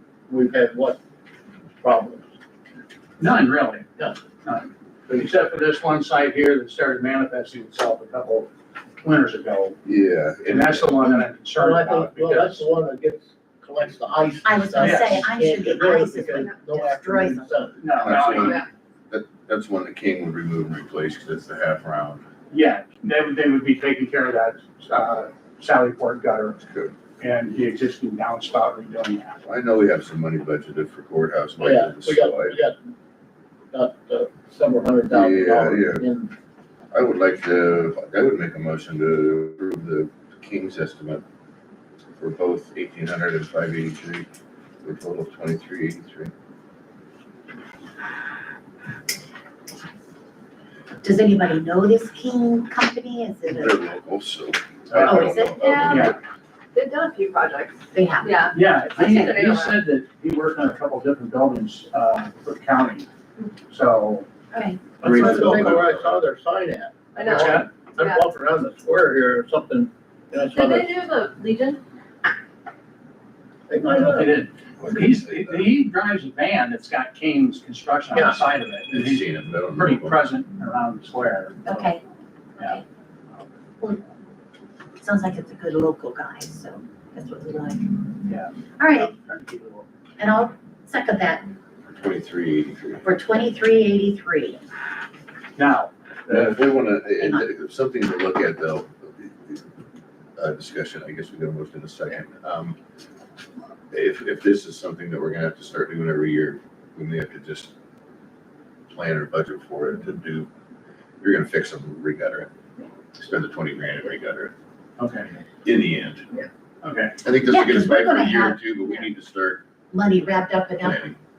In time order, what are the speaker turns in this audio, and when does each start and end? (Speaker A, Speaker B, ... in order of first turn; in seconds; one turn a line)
Speaker A: 0.3-1.0
Speaker A: 1.8-2.3
Speaker B: 3.2-3.9
Speaker B: 4.4-8.5
Speaker B: 9.0-9.8
Speaker C: 9.8-11.0
Speaker B: 10.4-12.7
Speaker A: 11.6-18.0
Speaker D: 14.4-17.7
Speaker B: 14.8-15.2
Speaker B: 17.8-18.6
Speaker C: 17.9-22.2
Speaker E: 18.3-18.6
Speaker B: 22.5-26.6
Speaker C: 26.6-26.9
Speaker B: 27.2-29.4
Speaker C: 29.4-32.6
Speaker A: 31.6-32.8
Speaker A: 33.7-36.3
Speaker C: 35.1-36.0
Speaker C: 36.9-41.2
Speaker C: 42.2-44.3
Speaker C: 44.8-46.3
Speaker D: 51.0-53.8
Speaker C: 53.5-56.2
Speaker B: 54.9-55.3
Speaker D: 54.9-56.1
Speaker E: 55.6-56.1
Speaker B: 55.9-56.1
Speaker E: 56.7-59.8
Speaker D: 57.9-58.5
Speaker B: 58.5-63.1
Speaker B: 63.7-64.3
Speaker D: 64.5-64.9
Speaker B: 65.0-65.7
Speaker C: 65.0-66.1
Speaker A: 65.0-70.9
Speaker E: 67.1-68.2
Speaker B: 67.2-67.7
Speaker E: 70.4-71.8
Speaker A: 73.7-74.4
Speaker B: 73.8-81.9
Speaker C: 74.8-75.7
Speaker A: 78.1-78.4
Speaker C: 78.9-80.2
Speaker D: 81.6-82.0
Speaker D: 85.0-88.2
Speaker B: 88.2-89.8
Speaker D: 88.8-89.1
Speaker D: 90.2-91.5
Speaker C: 91.9-93.0
Speaker D: 93.0-94.6
Speaker B: 95.6-96.6
Speaker C: 96.3-99.7
Speaker C: 100.4-102.8
Speaker C: 103.9-107.7
Speaker C: 108.9-110.5
Speaker C: 111.2-112.5
Speaker C: 113.2-114.5
Speaker B: 115.0-115.3
Speaker C: 115.6-116.3
Speaker B: 116.8-117.2
Speaker C: 117.2-119.6
Speaker D: 117.5-118.6
Speaker D: 119.9-121.1
Speaker C: 120.8-121.1